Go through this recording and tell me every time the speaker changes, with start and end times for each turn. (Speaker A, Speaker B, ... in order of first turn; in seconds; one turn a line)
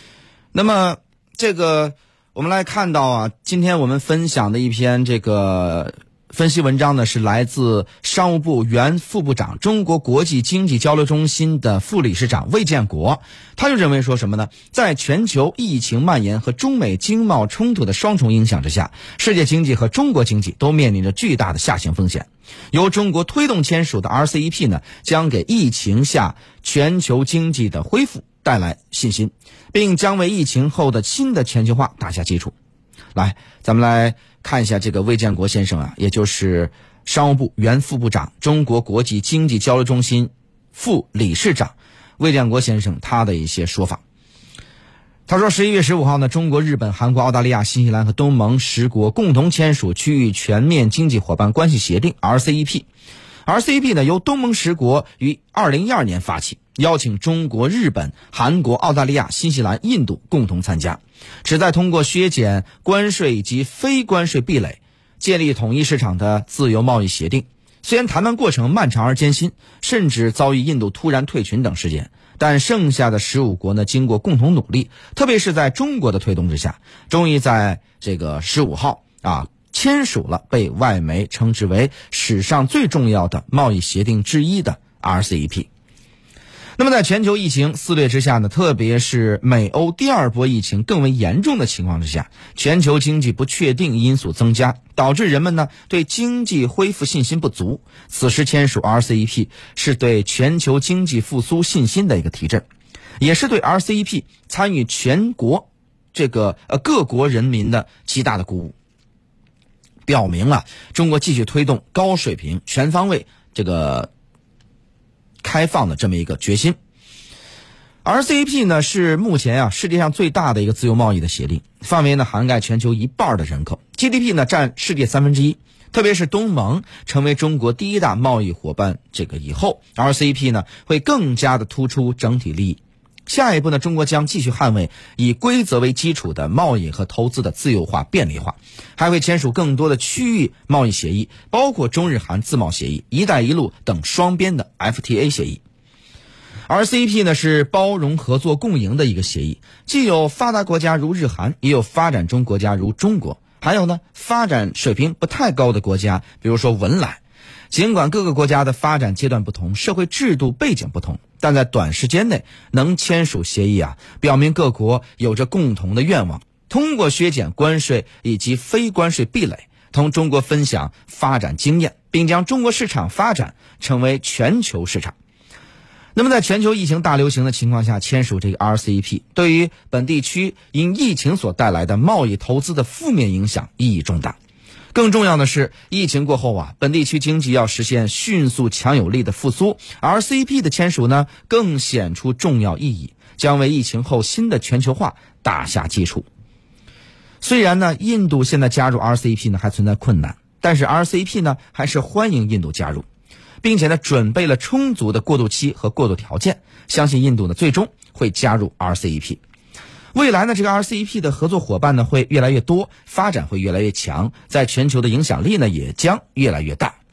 Speaker A: 0.5-32.5
Speaker A: 33.1-44.0
Speaker A: 45.3-52.9
Speaker A: 53.5-85.7
Speaker A: 86.8-102.6
Speaker A: 103.2-108.7
Speaker A: 110.0-114.1
Speaker A: 115.4-116.8
Speaker A: 118.0-145.6
Speaker A: 146.7-175.1
Speaker A: 176.1-184.3
Speaker A: 184.9-196.2
Speaker A: 197.4-203.0
Speaker A: 203.6-209.4
Speaker A: 210.1-216.9